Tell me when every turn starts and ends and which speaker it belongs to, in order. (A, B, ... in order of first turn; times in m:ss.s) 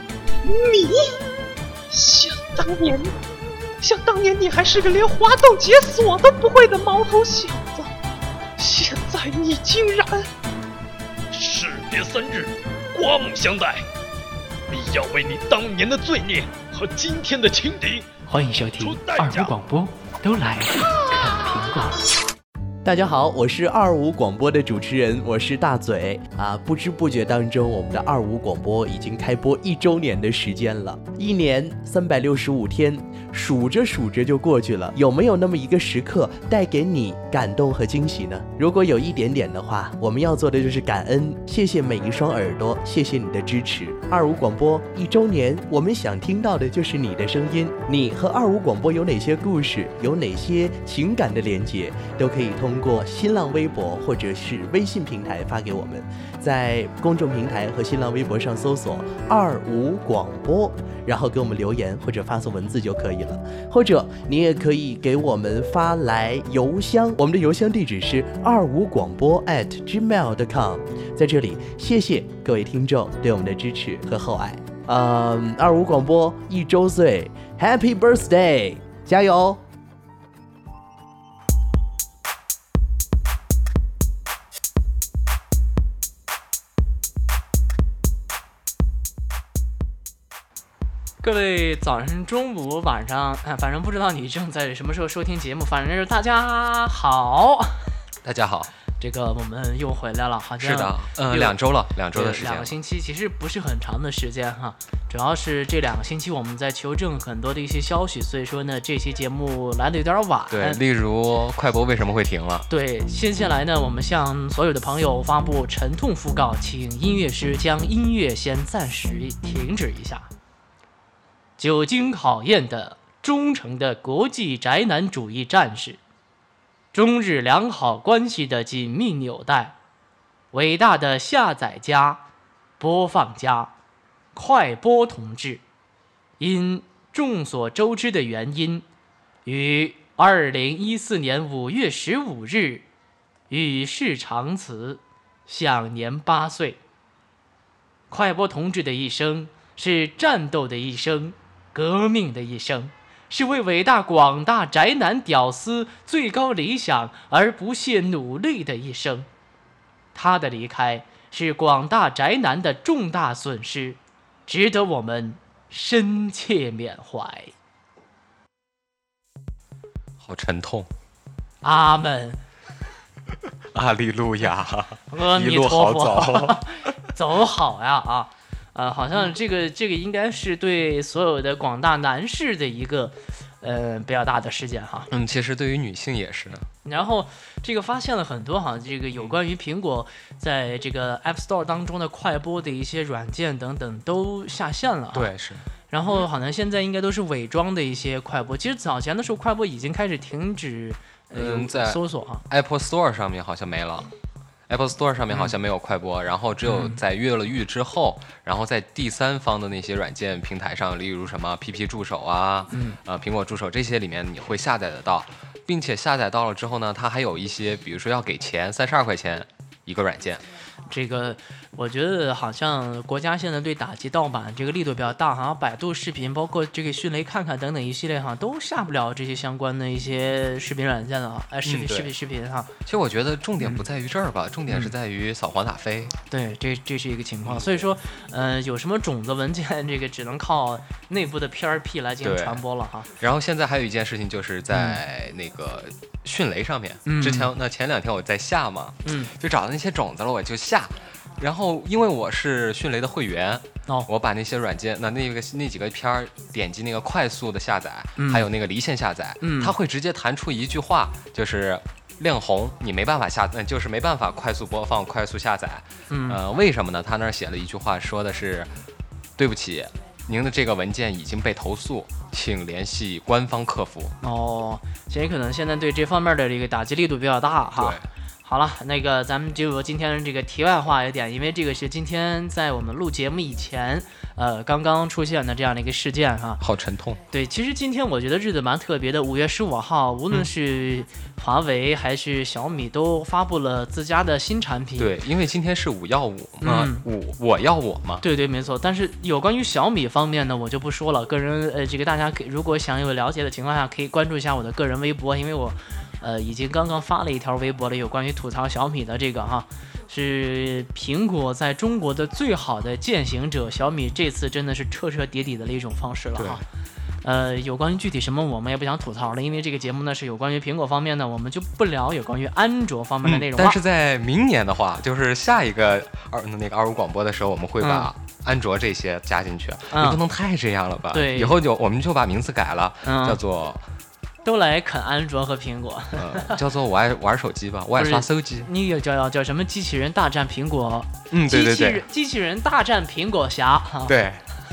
0:00.5-0:00.9 A
0:02.0-0:03.1 B
0:02.0-0:03.1 A
0:03.8-0:07.6 B
0:04.0-0:07.9 A
0:08.6-0:10.2 A
0:08.6-0:10.2 B
0:11.3-0:13.8 A
0:14.7-0:18.1 A
0:18.3-0:22.0 C
0:18.8-0:19.6 A
0:22.8-1:19.6 D
1:31.2-1:38.0 C
1:38.2-1:38.7 E
1:39.0-1:41.6 C
1:40.6-1:42.7 E
1:42.1-1:50.8 C
1:50.5-1:52.7 E
1:52.7-2:00.3 C
2:01.6-2:06.0 C
2:06.9-2:09.8 C
2:10.5-2:12.2 C
2:12.8-2:13.7 C
2:14.3-2:15.6 C
2:16.4-2:18.8 C
2:19.4-2:22.8 C
2:23.5-2:26.8 C
2:28.1-2:39.3 C
2:40.1-2:47.5 C
2:50.2-2:50.9 E
2:51.6-2:52.4 C
2:53.7-2:56.9 E
2:55.1-3:05.1 C
3:05.1-3:06.7 E
3:06.8-3:15.3 C
3:15.1-3:15.7 E
3:15.9-3:22.4 C
3:21.3-3:24.1 E
3:24.7-3:40.4 E
3:26.7-3:27.0 C
3:32.7-3:33.0 C
3:40.9-3:52.7 C
3:51.6-3:52.1 E
3:52.8-3:56.2 E
3:56.3-4:03.1 C
3:57.4-3:57.9 E
4:02.2-4:02.6 E
4:03.2-4:28.7 E
4:04.7-4:05.0 C
4:07.0-4:07.5 C
4:09.0-4:09.3 C
4:18.2-4:18.5 C
4:19.4-4:19.7 C
4:26.1-4:26.4 C
4:29.4-4:34.2 E
4:34.2-4:46.6 C
4:37.8-4:38.0 E
4:46.6-4:47.2 E
4:47.3-4:55.1 C
4:55.0-4:58.2 E
4:56.6-4:57.0 C
4:58.2-5:16.6 C
5:16.4-5:16.6 E
5:17.2-5:23.8 C
5:23.2-5:33.8 E
5:27.8-5:28.1 C
5:29.9-5:30.2 C
5:31.1-5:31.6 C
5:33.0-5:33.4 C
5:34.4-5:36.6 C
5:36.2-5:38.7 E
5:38.0-5:44.1 C
5:41.3-5:42.0 E
5:44.1-5:44.4 E